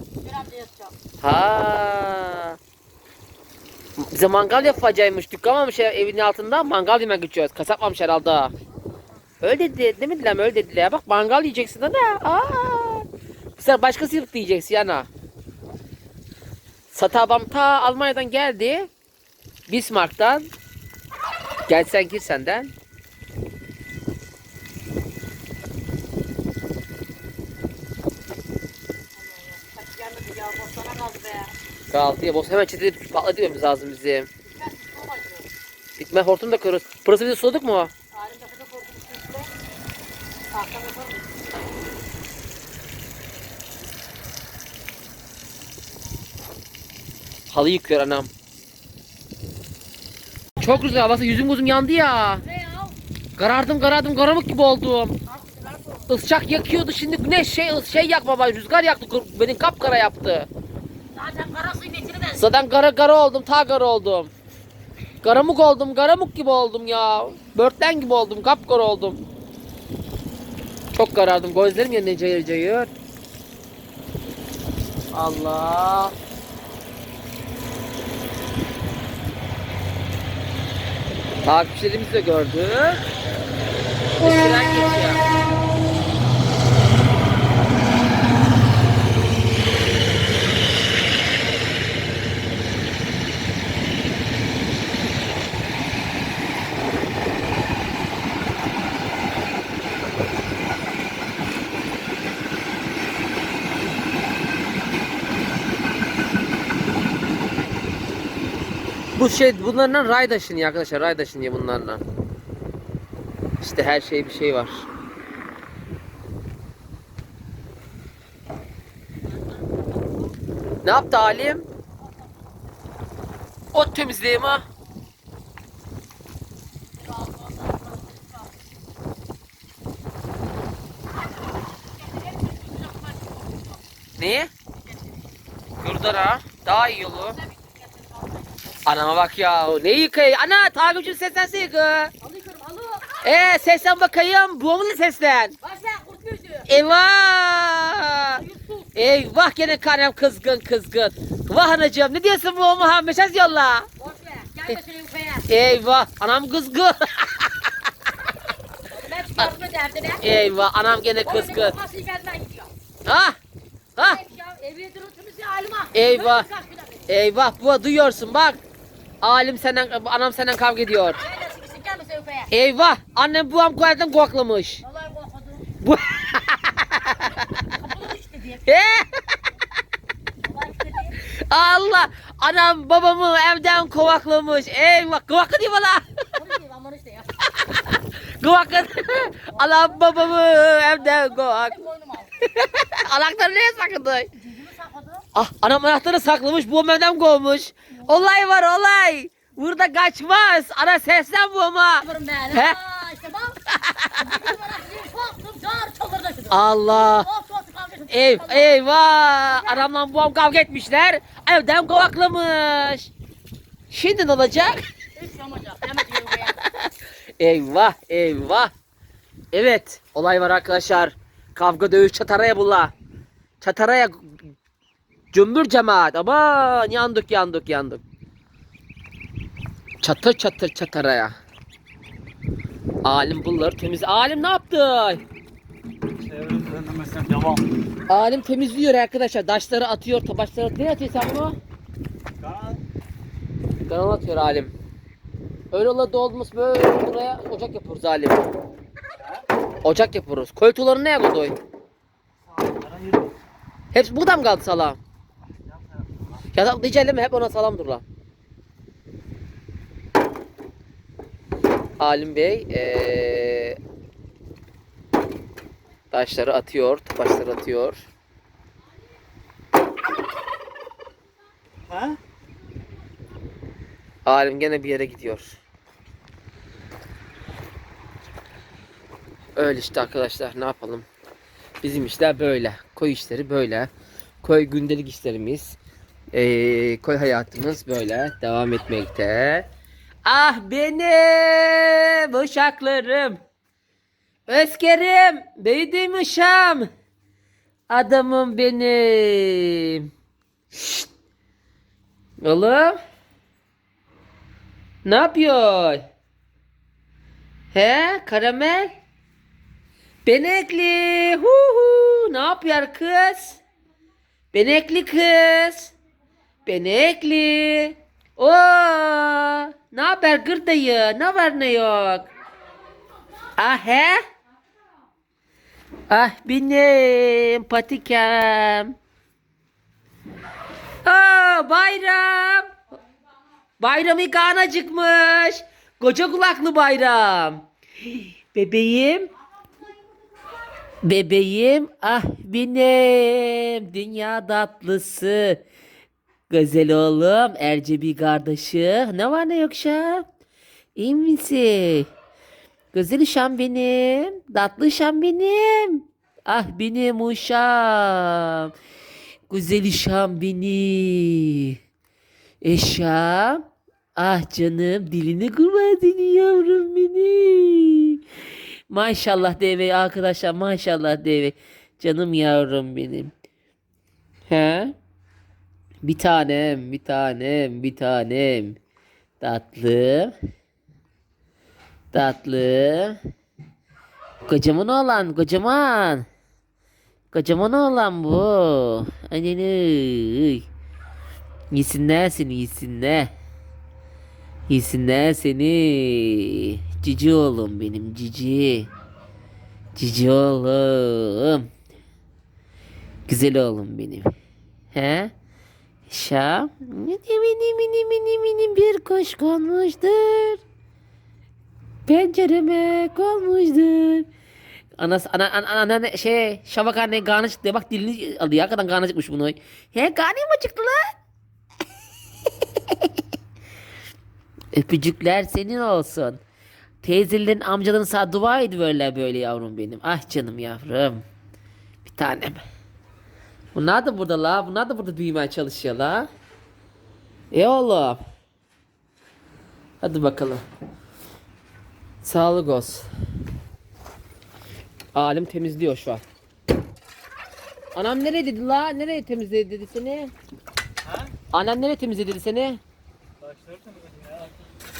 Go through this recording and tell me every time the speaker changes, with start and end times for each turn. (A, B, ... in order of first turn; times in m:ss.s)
0:00.2-0:00.9 A
0:01.2-0:02.6 B
0:04.0-0:08.5 B
0:09.4-0:13.0 B
0:13.6-0:15.1 B
0:16.9-0:18.9 B
0:19.7-0:20.5 B
0:21.7-0:22.7 B
0:29.2-0:31.5 A
0:31.9-0:34.3 B
0:34.4-0:35.5 A
0:36.0-0:37.9 B
0:38.1-0:39.5 A
0:40.5-0:41.4 A
0:47.5-0:48.3 B
0:50.6-0:52.4 B
0:52.4-0:53.0 A
0:53.4-0:55.2 B
0:55.3-0:56.1 A
0:56.1-1:00.5 B
1:01.1-1:02.4 A
1:02.3-1:04.3 B
1:05.2-1:09.2 B
1:10.9-1:12.9 B
1:15.1-1:16.1 B
1:21.4-1:23.0 B
1:24.2-1:25.2 B
1:49.2-1:52.0 B
1:53.6-1:54.8 B
2:00.8-2:01.6 B
2:03.7-2:04.6 B
2:06.9-2:08.4 A
2:11.9-2:13.8 A
2:14.2-2:14.5 B
2:15.8-2:17.4 B
2:17.4-2:18.8 A
2:18.8-2:22.1 B
2:22.2-2:23.3 A
2:23.2-2:25.6 B
2:25.6-2:26.7 A
2:26.7-2:28.4 B
2:28.3-2:28.9 A
2:28.9-2:33.9 B
2:34.0-2:35.4 A
2:35.5-2:37.7 B
2:38.9-2:40.2 A
2:40.2-2:41.7 B
2:41.2-2:42.7 A
2:43.0-2:43.4 B
2:44.0-2:44.2 B
2:44.0-2:47.1 A
2:45.9-2:46.5 B
2:47.1-2:48.6 B
2:49.2-2:51.2 B
2:51.2-2:52.5 A
2:52.5-2:54.8 B
2:54.8-2:55.7 A
2:55.8-2:57.4 B
2:57.1-2:58.7 A
2:58.6-2:59.1 B
3:00.4-3:01.2 A
3:01.3-3:06.0 B
3:06.3-3:07.4 A
3:08.4-3:11.8 B
3:09.5-3:12.3 A
3:12.5-3:14.3 B
3:14.4-3:15.2 A
3:15.3-3:22.8 B
3:22.0-3:23.6 A
3:23.7-3:24.4 B
3:24.2-3:28.8 A
3:26.5-3:27.3 B
3:28.1-3:33.1 B
3:29.5-3:29.8 A
3:33.9-3:34.8 B
3:35.2-3:36.6 A
3:37.4-3:38.7 B
3:39.5-3:42.9 B
3:43.6-3:44.4 B
3:45.3-3:48.0 B
3:50.0-3:51.3 B
3:53.0-3:55.2 B
3:56.3-3:57.6 C
3:58.1-4:01.6 B
4:02.4-4:02.8 C
4:03.9-4:04.7 B
4:05.7-4:08.5 B
4:09.8-4:11.5 B
4:12.7-4:13.3 C
4:13.9-4:15.0 B
4:16.5-4:18.0 B
4:22.0-4:23.8 B
4:26.1-4:28.0 B
4:34.2-4:35.6 B
4:39.6-4:41.0 B
4:41.8-4:43.9 B
4:44.4-4:45.8 B
4:46.3-4:49.7 B
4:50.2-4:53.4 B
4:54.5-4:56.9 B
4:57.9-5:00.1 B
5:00.7-5:01.1 B
5:02.4-5:03.0 B
5:05.0-5:06.0 B
5:07.7-5:08.9 B
5:10.2-5:13.6 B
5:14.5-5:15.9 B
5:16.6-5:22.3 B
5:23.6-5:24.2 B
5:26.1-5:28.9 B
5:31.0-5:32.7 B
5:33.8-5:39.3 B
5:41.0-5:45.6 B
5:46.5-5:50.2 B
5:51.0-5:52.1 B
5:52.9-5:58.7 B
5:59.5-6:01.8 B
6:02.6-6:03.6 B
6:04.2-6:08.2 B
6:08.9-6:13.3 B
6:14.5-6:14.9 B
6:16.0-6:18.8 B
6:19.4-6:20.3 B
6:22.1-6:23.2 B
6:24.5-6:26.2 B
6:27.3-6:30.6 B
6:31.7-6:33.3 B
6:34.7-6:38.9 B
6:40.0-6:41.7 B
6:43.3-6:44.3 B
6:44.9-6:45.3 B
6:46.1-6:50.6 B
6:52.1-6:54.3 B
6:55.0-7:01.0 B
7:04.7-7:06.4 B
7:07.0-7:11.2 B
7:12.0-7:12.6 B
7:13.7-7:16.3 B
7:17.5-7:18.2 B
7:20.0-7:20.6 B
7:22.2-7:23.1 B
7:25.1-7:26.2 B
7:27.9-7:30.3 B
7:31.5-7:32.8 B
7:33.4-7:34.5 C